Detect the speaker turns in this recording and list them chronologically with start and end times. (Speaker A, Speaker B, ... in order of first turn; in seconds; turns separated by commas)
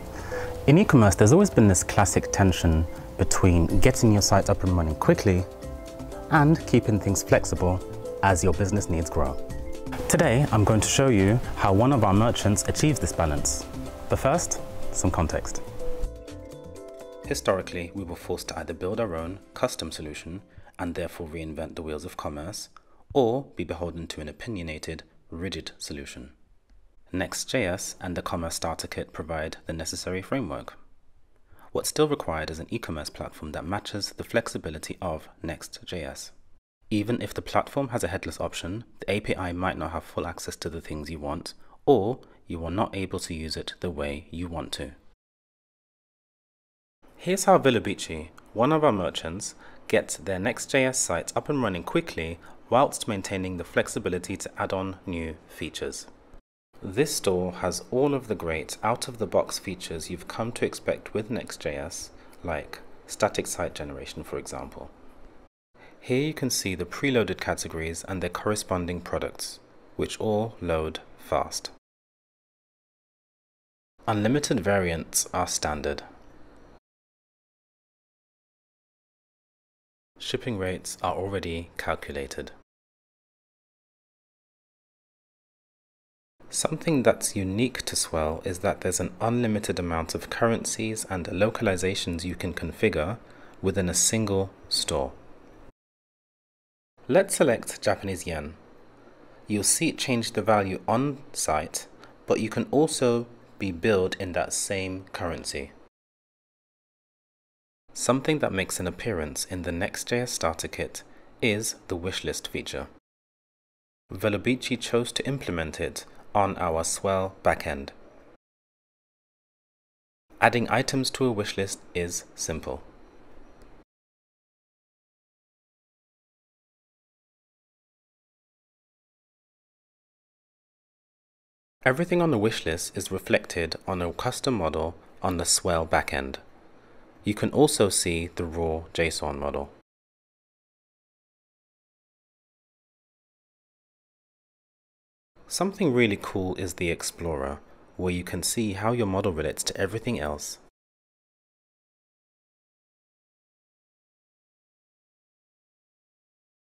Speaker A: 0.7-5.5, Speaker A: 6.3-9.4, Speaker A: 10.1-15.6, Speaker A: 17.2-26.3, Speaker A: 27.1-30.8, Speaker A: 31.7-36.3, Speaker A: 36.9-44.9, Speaker A: 47.2-56.1, Speaker A: 56.8-64.9, Speaker A: 66.0-71.7, Speaker A: 74.1-76.0, Speaker A: 80.2-82.5, Speaker A: 86.5-95.2, Speaker A: 97.1-98.6, Speaker A: 99.5-105.7, Speaker A: 107.9-112.9, Speaker A: 114.1-117.9, Speaker A: 120.4-122.8, Speaker A: 131.8-136.4, Speaker A: 137.2-139.7, Speaker A: 145.5-150.6